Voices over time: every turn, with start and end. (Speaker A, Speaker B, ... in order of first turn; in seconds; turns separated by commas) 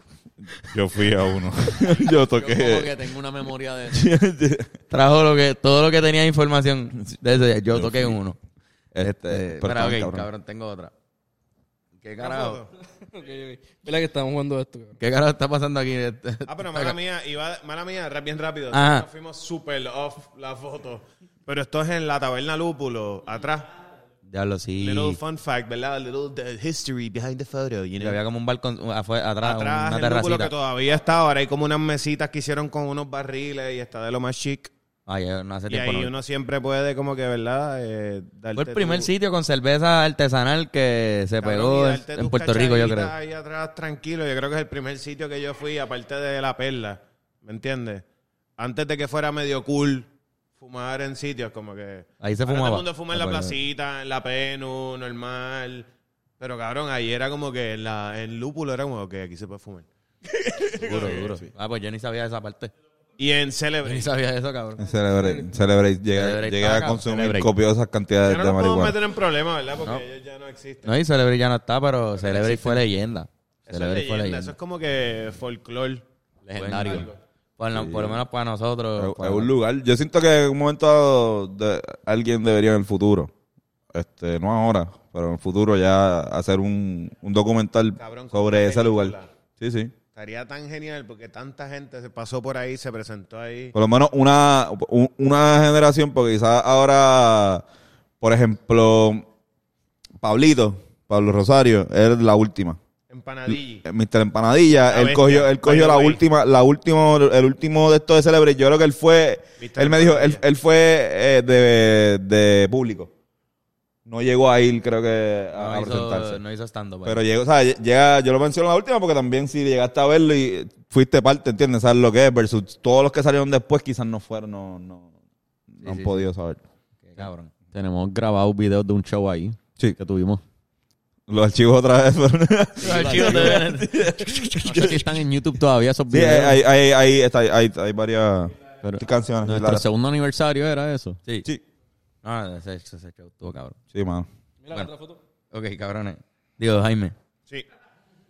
Speaker A: 0.6-3.0, Speaker B: 2.4-4.1, Speaker A: 3.9-4.7, Speaker C: 4.9-8.4, Speaker A: 7.7-8.2, Speaker A: 8.9-10.3, Speaker C: 9.0-10.9, Speaker C: 12.0-12.6, Speaker D: 12.2-12.7, Speaker E: 13.0-15.0, Speaker C: 15.0-17.0, Speaker D: 16.5-23.7, Speaker C: 18.7-19.1, Speaker C: 24.3-25.2, Speaker D: 24.8-28.2, Speaker C: 28.0-30.5, Speaker D: 29.4-34.7, Speaker C: 35.1-36.1, Speaker D: 35.7-39.1, Speaker C: 38.5-43.1, Speaker D: 41.4-48.0, Speaker D: 48.6-61.5, Speaker C: 52.2-53.6, Speaker C: 60.7-62.7, Speaker D: 63.2-64.1, Speaker C: 63.8-64.8, Speaker A: 64.8-69.0, Speaker C: 66.1-67.5, Speaker D: 68.2-70.9, Speaker C: 70.8-74.5, Speaker D: 72.2-72.8, Speaker D: 73.7-76.0, Speaker B: 76.4-77.1, Speaker C: 76.6-79.5, Speaker D: 76.8-77.2, Speaker A: 77.7-78.2, Speaker A: 79.0-83.3, Speaker A: 83.9-89.9, Speaker D: 88.0-89.3, Speaker D: 90.1-93.7, Speaker A: 93.7-97.7, Speaker A: 98.2-99.3, Speaker A: 100.2-102.8, Speaker D: 103.1-103.8, Speaker A: 103.5-113.1, Speaker D: 104.9-106.2, Speaker D: 109.6-110.4, Speaker A: 114.1-116.4, Speaker C: 115.5-117.2, Speaker A: 117.0-125.1, Speaker A: 125.7-126.6, Speaker C: 125.8-126.3, Speaker C: 127.0-127.5, Speaker B: 127.7-130.4, Speaker A: 131.3-135.1, Speaker B: 132.8-133.7, Speaker C: 132.8-134.1, Speaker B: 134.6-136.6, Speaker A: 136.1-139.8, Speaker B: 138.8-141.2, Speaker C: 142.2-143.8, Speaker A: 143.9-144.3, Speaker E: 144.6-145.2, Speaker C: 145.5-147.2